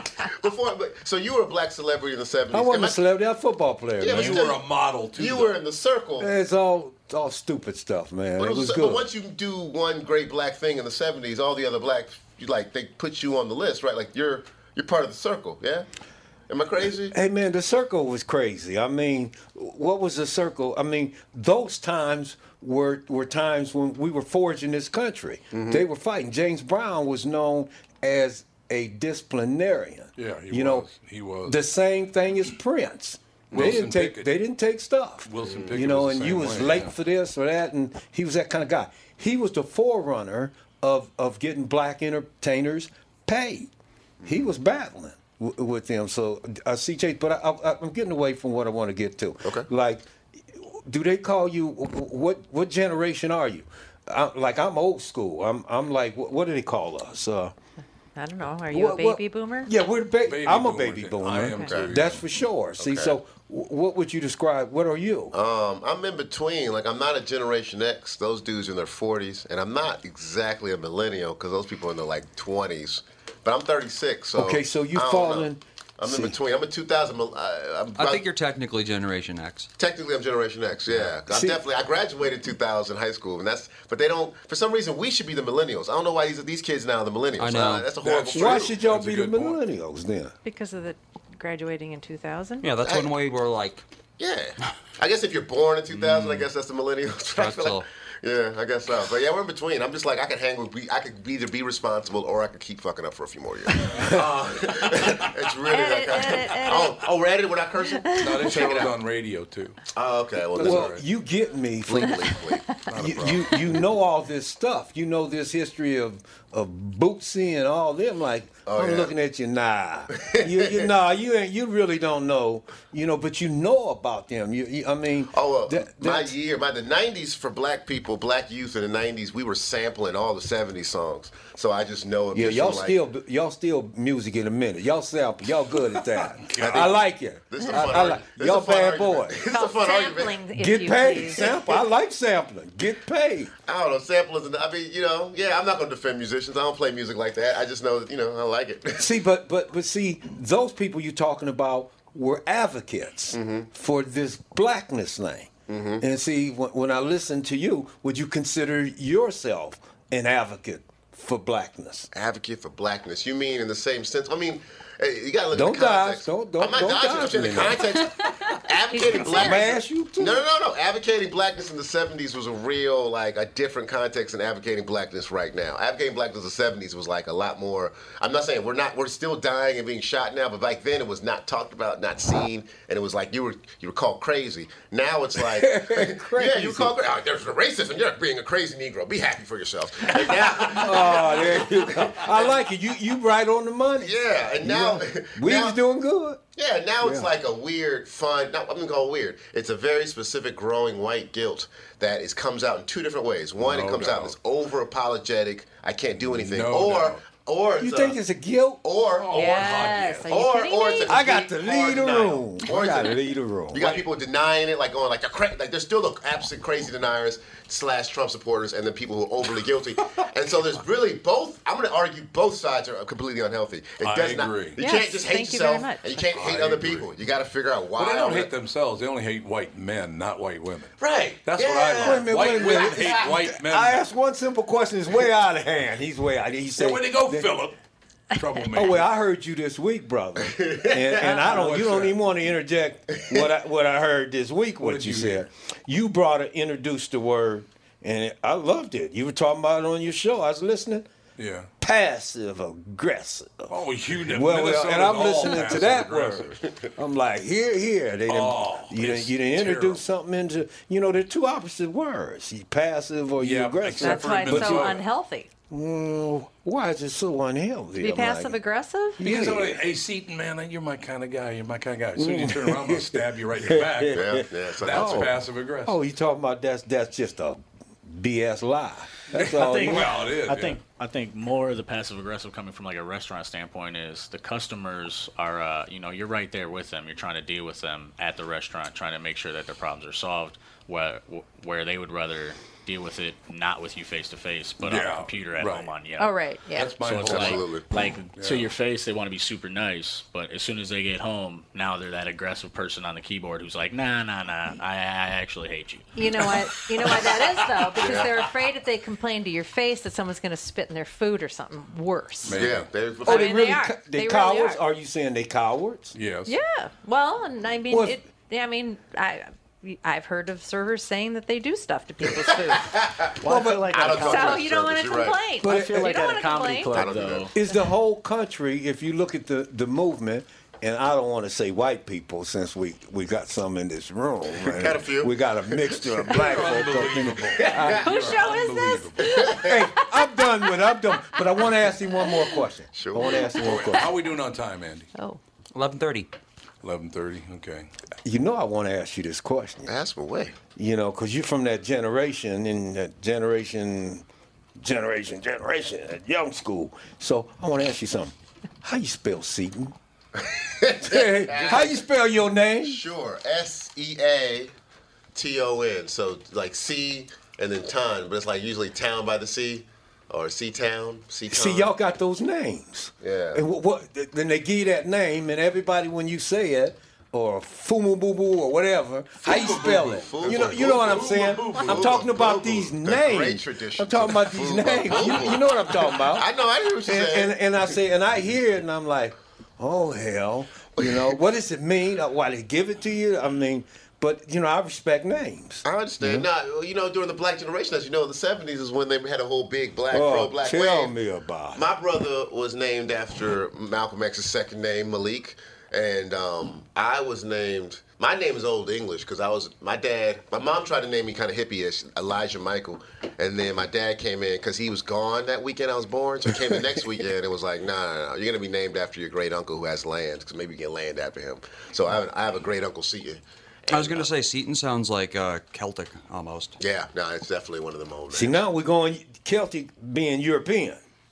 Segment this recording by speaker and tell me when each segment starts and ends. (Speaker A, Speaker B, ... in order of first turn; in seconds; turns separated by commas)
Speaker A: 0.2-3.0, Speaker B: 2.5-4.5, Speaker A: 4.0-6.3, Speaker C: 4.1-5.6, Speaker B: 6.2-9.1, Speaker A: 8.4-15.9, Speaker A: 16.5-17.1, Speaker B: 17.1-30.9, Speaker A: 25.5-25.8, Speaker C: 30.2-31.6, Speaker B: 31.5-43.7, Speaker C: 33.5-34.3, Speaker C: 35.3-36.9, Speaker B: 44.3-57.5, Speaker D: 58.1-59.7, Speaker B: 58.7-65.3, Speaker C: 60.3-62.2, Speaker D: 61.5-61.8, Speaker A: 61.7-62.0, Speaker A: 62.8-63.2, Speaker A: 65.3-75.5, Speaker B: 74.3-76.4, Speaker A: 76.0-78.3, Speaker E: 78.0-79.7, Speaker A: 79.8-88.8, Speaker B: 81.3-81.6, Speaker E: 87.4-88.0, Speaker C: 88.0-89.6, Speaker B: 88.3-90.3, Speaker D: 90.4-92.7, Speaker E: 92.6-93.8, Speaker A: 92.8-93.1, Speaker A: 94.2-108.9, Speaker E: 97.3-97.9, Speaker B: 104.0-104.2, Speaker D: 105.7-107.1, Speaker D: 107.9-108.8, Speaker C: 108.2-109.8, Speaker A: 109.9-111.0, Speaker C: 110.5-111.0, Speaker B: 110.6-112.3, Speaker A: 111.9-113.3, Speaker C: 112.9-113.5, Speaker B: 113.0-126.3, Speaker A: 118.7-119.1, Speaker A: 120.2-120.9, Speaker A: 125.3-133.0, Speaker B: 132.3-139.4, Speaker C: 136.4-136.9, Speaker A: 136.6-140.4, Speaker D: 137.6-137.9, Speaker D: 139.5-141.5, Speaker B: 140.6-143.5, Speaker A: 141.4-141.8, Speaker A: 143.7-149.1, Speaker B: 149.0-162.1, Speaker A: 153.3-153.7, Speaker A: 155.7-156.0, Speaker A: 162.1-192.6, Speaker B: 165.5-167.9, Speaker D: 168.9-169.8, Speaker B: 169.3-170.4, Speaker B: 185.4-187.0, Speaker B: 190.6-196.4, Speaker A: 194.0-195.8, Speaker A: 196.6-208.2, Speaker B: 197.0-197.3, Speaker C: 203.6-204.3, Speaker C: 206.2-207.2, Speaker B: 207.8-208.8, Speaker A: 208.8-209.5, Speaker C: 209.2-210.3, Speaker D: 209.3-211.4, Speaker A: 210.3-213.2, Speaker B: 211.1-214.0, Speaker A: 213.7-228.5, Speaker C: 224.0-224.8, Speaker D: 224.8-226.3, Speaker C: 226.3-227.1, Speaker C: 227.9-230.9, Speaker A: 231.0-233.2, Speaker C: 231.4-234.0, Speaker B: 232.0-237.5, Speaker C: 236.8-237.8, Speaker C: 238.3-239.0, Speaker B: 238.7-251.1, Speaker A: 240.5-241.4, Speaker C: 241.4-242.2, Speaker C: 244.8-245.5, Speaker C: 251.4-251.7, Speaker B: 251.8-265.0, Speaker C: 253.7-256.6, Speaker C: 258.3-260.0, Speaker C: 263.4-265.0, Speaker D: 264.0-265.5, Speaker B: 265.7-268.6, Speaker D: 268.0-269.2, Speaker B: 269.2-269.8, Speaker C: 269.2-276.0, Speaker B: 272.2-275.3, Speaker A: 274.1-275.4, Speaker B: 275.9-280.1, Speaker C: 279.3-280.8, Speaker F: 279.5-296.4, Speaker C: 294.8-295.9, Speaker D: 296.2-297.1, Speaker C: 296.7-297.7, Speaker F: 297.0-306.5, Speaker A: 297.3-297.9, Speaker C: 298.4-298.7, Speaker D: 306.1-314.8, Speaker C: 308.0-308.3, Speaker A: 308.0-308.3, Speaker C: 312.4-312.9, Speaker A: 312.6-313.7, Speaker B: 313.3-316.2, Speaker C: 316.1-316.6, Speaker D: 316.5-323.0, Speaker B: 317.9-318.2, Speaker A: 322.3-323.3, Speaker B: 323.4-324.3, Speaker F: 323.4-324.2, Speaker D: 323.6-327.1, Speaker A: 323.9-325.5, Speaker B: 325.6-326.2, Speaker F: 325.6-327.5, Speaker A: 326.9-327.5, Speaker B: 327.6-338.1, Speaker A: 334.6-336.4, Speaker C: 336.3-339.4, Speaker D: 337.7-341.6, Speaker A: 339.2-339.8, Speaker B: 339.6-344.1, Speaker D: 342.2-342.6, Speaker A: 342.9-343.5, Speaker C: 343.6-345.1, Speaker D: 345.1-345.4, Speaker E: 345.7-346.3, Speaker C: 346.8-347.9, Speaker B: 348.2-349.9, Speaker A: 349.9-350.6, Speaker B: 350.8-354.2, Speaker B: 354.8-359.9, Speaker A: 360.4-362.0, Speaker B: 361.0-363.0, Speaker A: 362.8-364.7, Speaker A: 365.3-371.9, Speaker B: 371.5-386.5, Speaker A: 373.2-373.6, Speaker C: 379.4-382.2, Speaker A: 379.7-387.6, Speaker B: 387.1-396.5, Speaker A: 395.9-401.1, Speaker B: 400.1-401.9, Speaker A: 401.7-424.3, Speaker E: 423.9-426.8, Speaker A: 426.8-428.6, Speaker B: 428.3-431.0